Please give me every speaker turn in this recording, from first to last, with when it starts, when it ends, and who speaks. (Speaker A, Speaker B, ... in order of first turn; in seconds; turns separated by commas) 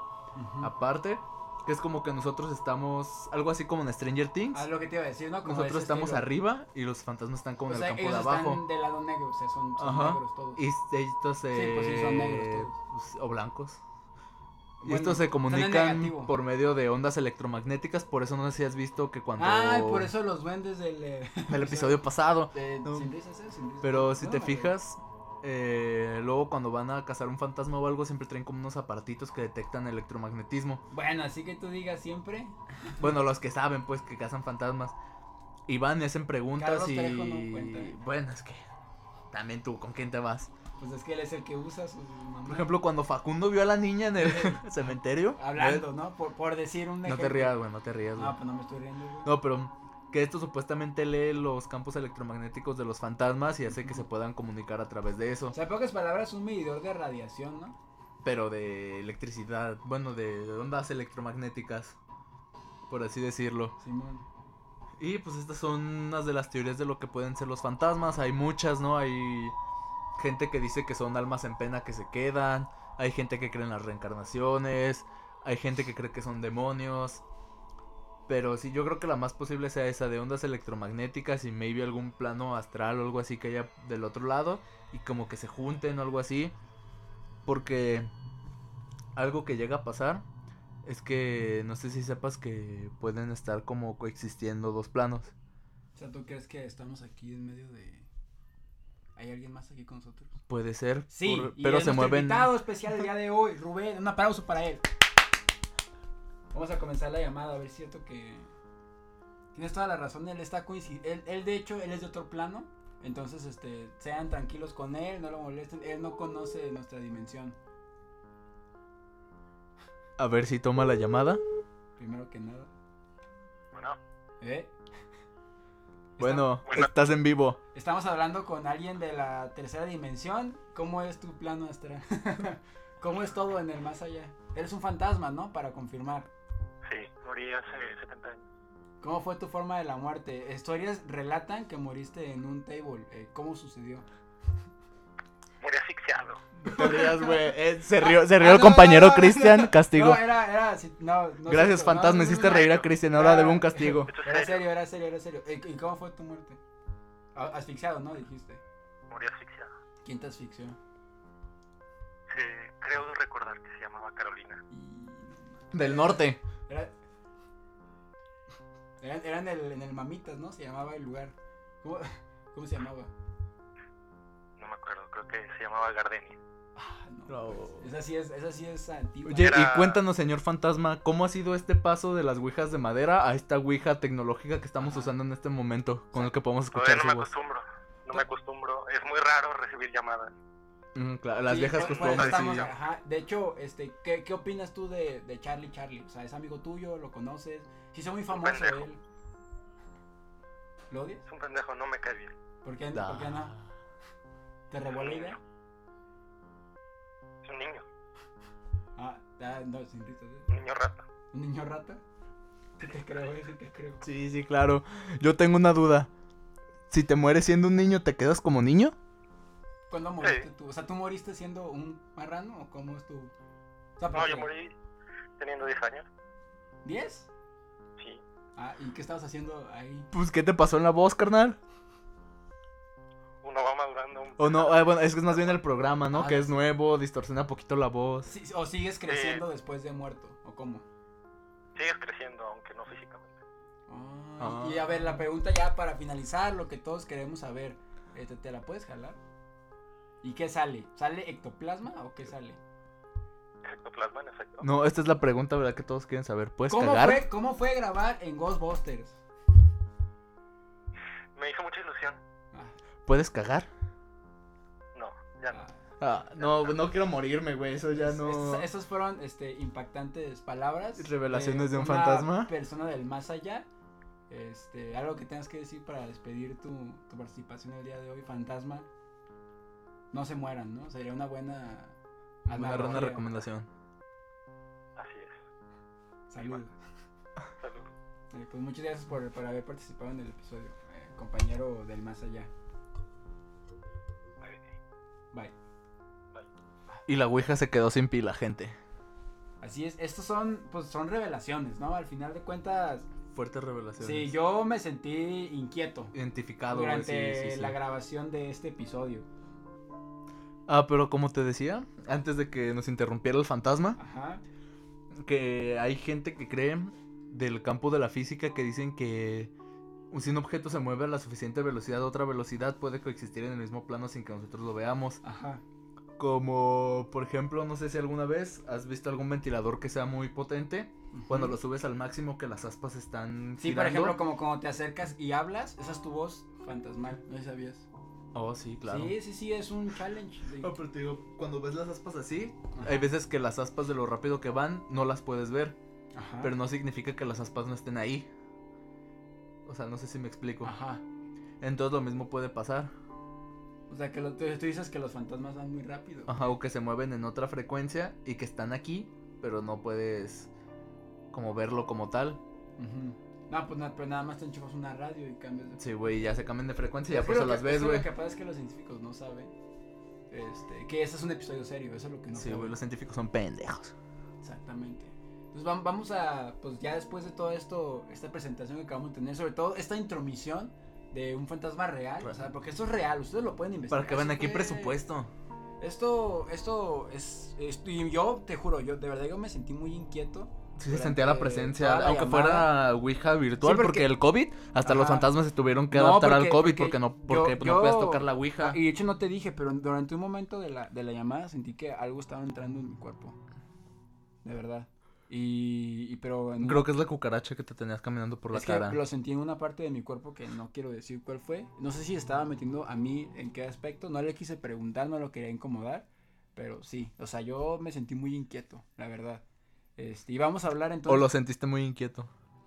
Speaker A: 0.4-0.7, Speaker B: 0.6-4.7, Speaker A: 4.5-6.3, Speaker B: 5.4-8.6, Speaker A: 7.7-10.6, Speaker B: 9.8-13.8, Speaker A: 11.5-12.8, Speaker A: 14.8-16.3, Speaker B: 14.8-20.1, Speaker A: 19.4-24.8, Speaker B: 21.5-23.1, Speaker B: 23.8-30.8, Speaker A: 30.9-33.0, Speaker B: 33.0-34.9, Speaker B: 35.7-38.7, Speaker A: 36.6-37.9, Speaker B: 39.3-40.5, Speaker A: 40.8-42.8, Speaker B: 42.5-45.9, Speaker A: 44.2-44.6, Speaker A: 45.4-47.6, Speaker B: 47.0-48.4, Speaker A: 48.1-49.3, Speaker B: 49.2-55.5, Speaker A: 53.7-54.0, Speaker A: 55.5-57.8, Speaker B: 58.2-62.0, Speaker B: 62.9-63.8, Speaker A: 63.8-64.2, Speaker B: 65.0-69.6, Speaker B: 70.2-77.2, Speaker B: 78.3-86.5, Speaker B: 87.4-88.1, Speaker B: 89.1-90.2, Speaker B: 90.8-95.3, Speaker A: 96.0-98.1, Speaker A: 99.2-100.4, Speaker B: 100.5-102.5, Speaker A: 101.1-104.8, Speaker A: 106.5-108.5, Speaker A: 109.5-117.6, Speaker B: 120.2-121.4, Speaker A: 122.0-122.7, Speaker C: 123.7-124.0, Speaker A: 124.4-124.7, Speaker A: 126.2-126.5, Speaker B: 126.2-127.6, Speaker C: 126.6-126.9, Speaker A: 127.7-136.3, Speaker C: 136.9-138.4, Speaker A: 139.0-144.1, Speaker C: 145.6-146.4, Speaker B: 146.6-150.2, Speaker A: 146.7-147.4, Speaker A: 148.0-156.6, Speaker B: 151.5-154.1, Speaker C: 152.4-152.9, Speaker C: 154.1-154.7, Speaker A: 157.3-158.6, Speaker C: 159.1-159.7, Speaker A: 160.0-160.8, Speaker C: 162.3-164.6, Speaker A: 164.7-166.9, Speaker B: 165.7-166.4, Speaker A: 169.0-173.1, Speaker C: 174.6-176.4, Speaker A: 176.8-179.6, Speaker B: 177.3-177.9, Speaker B: 179.2-187.3, Speaker C: 179.4-180.0, Speaker A: 184.8-185.1, Speaker C: 186.7-190.3, Speaker B: 190.9-192.7, Speaker A: 191.5-199.0, Speaker C: 191.7-192.7, Speaker C: 198.3-198.9, Speaker A: 200.9-201.2, Speaker C: 201.3-202.3, Speaker A: 202.6-203.5, Speaker B: 202.9-203.7, Speaker A: 204.7-205.4, Speaker C: 204.9-205.4, Speaker C: 207.4-207.8, Speaker A: 209.0-210.5, Speaker C: 210.5-211.0, Speaker A: 211.3-212.0, Speaker A: 212.8-214.0, Speaker B: 214.0-216.1, Speaker B: 216.9-219.0, Speaker A: 219.9-223.3, Speaker C: 220.2-220.5, Speaker A: 224.0-224.5, Speaker C: 224.1-224.7, Speaker C: 225.4-226.1, Speaker A: 226.8-227.3, Speaker C: 228.0-228.2, Speaker A: 228.6-230.1, Speaker B: 230.1-231.6, Speaker C: 233.4-235.5, Speaker B: 234.4-238.3, Speaker A: 236.1-236.5, Speaker A: 238.2-240.9, Speaker C: 239.1-239.4, Speaker C: 241.8-243.4, Speaker A: 243.9-249.2, Speaker B: 244.4-245.1, Speaker A: 250.2-252.6, Speaker C: 253.6-254.7, Speaker B: 254.6-257.2, Speaker A: 256.7-259.2, Speaker C: 261.4-262.2, Speaker B: 263.1-263.7, Speaker C: 264.9-265.6, Speaker A: 265.5-265.8, Speaker B: 266.0-268.7, Speaker C: 266.4-266.7, Speaker A: 267.9-273.7, Speaker B: 271.0-272.5, Speaker A: 274.3-278.9, Speaker A: 280.1-283.4, Speaker B: 282.5-283.7, Speaker C: 285.0-285.4, Speaker A: 286.3-286.7, Speaker C: 286.4-286.6, Speaker C: 287.6-287.9, Speaker A: 288.3-292.5, Speaker C: 294.4-294.7, Speaker B: 297.1-298.8, Speaker A: 299.6-303.1, Speaker B: 303.3-304.3, Speaker A: 304.0-306.1, Speaker B: 306.1-307.8, Speaker A: 306.7-309.3, Speaker B: 310.7-314.0, Speaker A: 314.0-314.4, Speaker B: 315.1-319.5, Speaker B: 320.1-325.2, Speaker A: 325.2-325.6, Speaker B: 326.2-334.2, Speaker A: 331.1-331.5, Speaker A: 333.6-337.9, Speaker B: 338.3-339.1, Speaker A: 338.9-340.8, Speaker B: 340.6-345.8, Speaker A: 342.7-343.1, Speaker A: 346.1-346.5, Speaker B: 346.4-348.3, Speaker B: 349.6-350.7, Speaker A: 350.6-351.0, Speaker B: 351.6-352.9, Speaker A: 353.9-356.6, Speaker B: 356.3-360.5, Speaker B: 361.3-362.4, Speaker A: 362.8-366.2, Speaker B: 365.8-368.1, Speaker A: 367.1-369.5, Speaker A: 370.3-372.8, Speaker B: 372.4-373.9, Speaker A: 374.4-385.0, Speaker B: 383.9-385.3, Speaker A: 385.8-392.7, Speaker B: 390.8-398.8, Speaker A: 393.6-394.1, Speaker A: 394.8-395.3, Speaker A: 395.9-403.4, Speaker A: 404.4-406.9, Speaker B: 406.6-409.0, Speaker A: 408.5-419.4, Speaker A: 420.0-421.3, Speaker B: 421.1-422.3